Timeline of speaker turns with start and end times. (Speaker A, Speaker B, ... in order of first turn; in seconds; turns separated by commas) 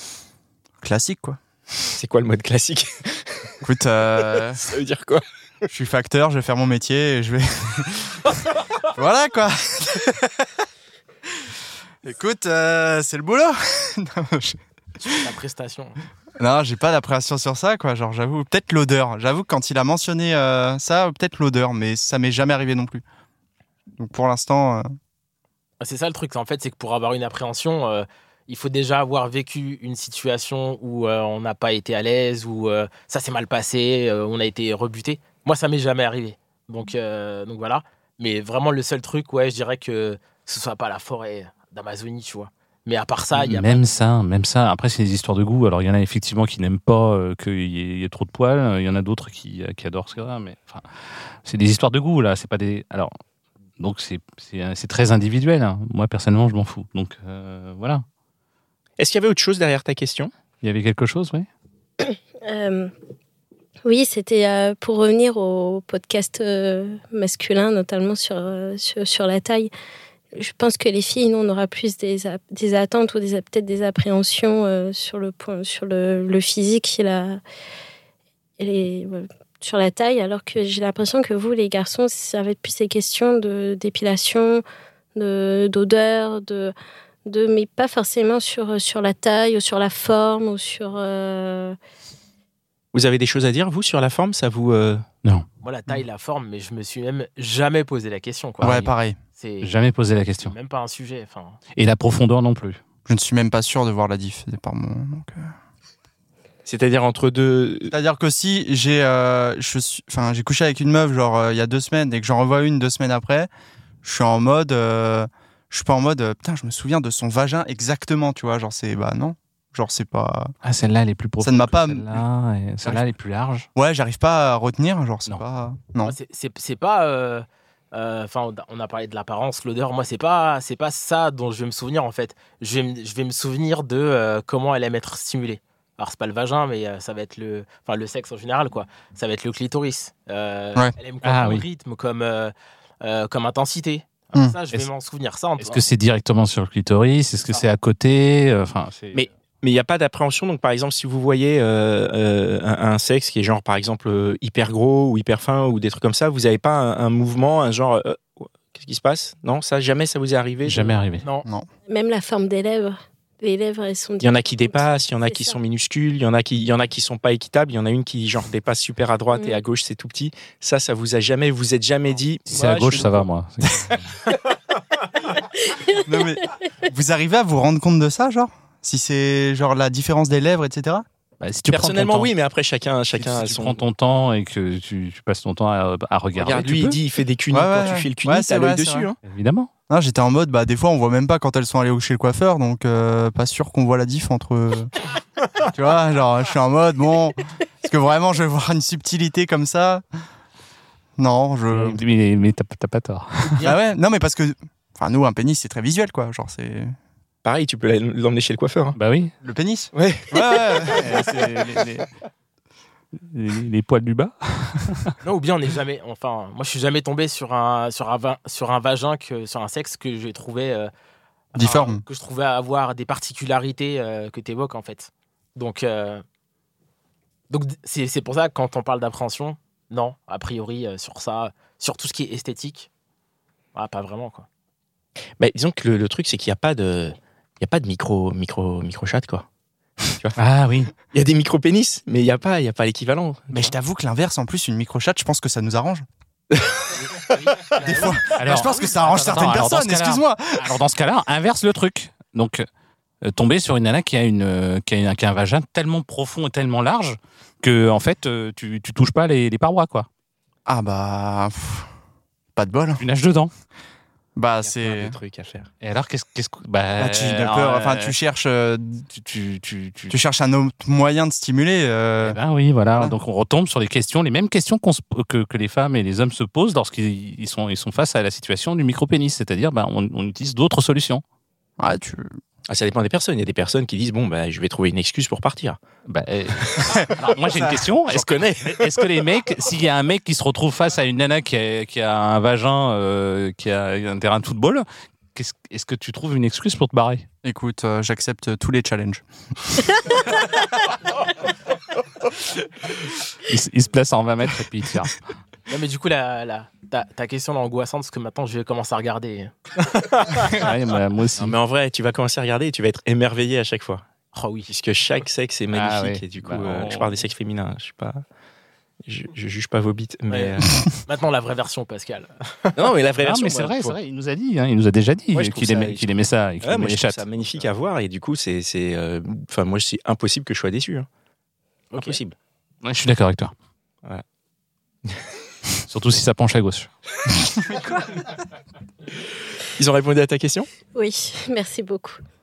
Speaker A: 0.8-1.4, Speaker B: 1.8-3.5, Speaker A: 3.6-4.6, Speaker B: 4.2-5.2, Speaker A: 5.7-10.5, Speaker A: 12.0-15.3, Speaker C: 15.2-16.0, Speaker A: 16.4-23.0, Speaker A: 24.0-24.9, Speaker C: 25.8-44.0, Speaker D: 43.4-50.8, Speaker D: 51.4-53.1, Speaker D: 53.8-58.0, Speaker B: 59.0-60.3, Speaker D: 60.6-61.5, Speaker E: 62.0-62.9, Speaker E: 63.8-69.7, Speaker E: 70.3-77.4, Speaker E: 78.6-84.6, Speaker E: 85.2-86.7, Speaker E: 87.2-91.8, Speaker B: 92.9-95.0, Speaker C: 95.6-98.7, Speaker D: 98.6-98.9, Speaker A: 98.6-99.2, Speaker C: 99.3-99.7, Speaker D: 99.6-100.5, Speaker C: 100.4-101.6, Speaker D: 101.7-102.8, Speaker A: 103.0-105.5, Speaker B: 106.6-107.9, Speaker A: 107.9-113.5, Speaker A: 114.0-120.5, Speaker D: 120.6-123.7, Speaker A: 121.4-122.2, Speaker A: 123.7-126.2, Speaker C: 126.0-145.8, Speaker D: 141.2-141.6, Speaker D: 145.6-149.3, Speaker B: 149.1-161.0, Speaker D: 160.6-161.2, Speaker E: 161.9-165.6, Speaker B: 164.2-173.3, Speaker E: 169.3-169.6, Speaker D: 172.5-174.2, Speaker E: 175.3-176.0, Speaker A: 175.9-181.0, Speaker D: 181.4-182.3, Speaker B: 181.7-183.8, Speaker D: 183.1-187.0, Speaker B: 186.3-189.1, Speaker A: 187.5-189.1, Speaker D: 189.2-189.7, Speaker A: 189.9-194.9, Speaker A: 195.6-200.0, Speaker A: 201.2-202.0, Speaker D: 201.7-203.7, Speaker A: 203.6-206.9, Speaker B: 207.4-208.9, Speaker D: 208.9-209.3, Speaker A: 209.4-211.9, Speaker B: 209.9-211.1, Speaker D: 210.9-212.0, Speaker D: 213.2-215.1, Speaker C: 215.2-220.9, Speaker C: 221.5-226.2, Speaker A: 221.6-222.0, Speaker C: 227.5-232.9, Speaker C: 233.7-234.5, Speaker B: 235.4-239.4, Speaker B: 240.0-240.4, Speaker D: 240.4-240.9, Speaker B: 241.1-243.7, Speaker A: 243.5-246.0, Speaker B: 246.5-247.0, Speaker A: 247.7-250.7, Speaker D: 248.3-252.6, Speaker D: 253.2-260.1, Speaker A: 260.6-261.9, Speaker A: 262.6-263.0, Speaker D: 263.0-263.5, Speaker A: 264.4-265.2, Speaker B: 264.6-265.7, Speaker D: 265.8-268.1, Speaker A: 267.0-269.1, Speaker D: 269.1-270.1, Speaker A: 270.1-272.4, Speaker D: 272.2-281.2, Speaker A: 281.8-282.3, Speaker B: 282.7-285.8, Speaker D: 286.1-297.3, Speaker B: 286.7-289.0, Speaker A: 297.4-299.9, Speaker D: 303.4-305.2, Speaker C: 305.7-310.6, Speaker D: 310.5-311.6, Speaker B: 311.4-314.0, Speaker C: 314.3-314.7, Speaker B: 314.7-318.2, Speaker D: 315.7-317.1, Speaker B: 319.1-321.0, Speaker C: 321.1-322.9, Speaker B: 322.8-323.9, Speaker D: 323.2-327.2, Speaker B: 325.3-326.1, Speaker B: 326.6-331.1, Speaker B: 331.9-332.3, Speaker D: 332.8-333.5, Speaker D: 335.9-336.9, Speaker B: 337.7-338.0, Speaker B: 339.8-340.7, Speaker E: 340.9-342.2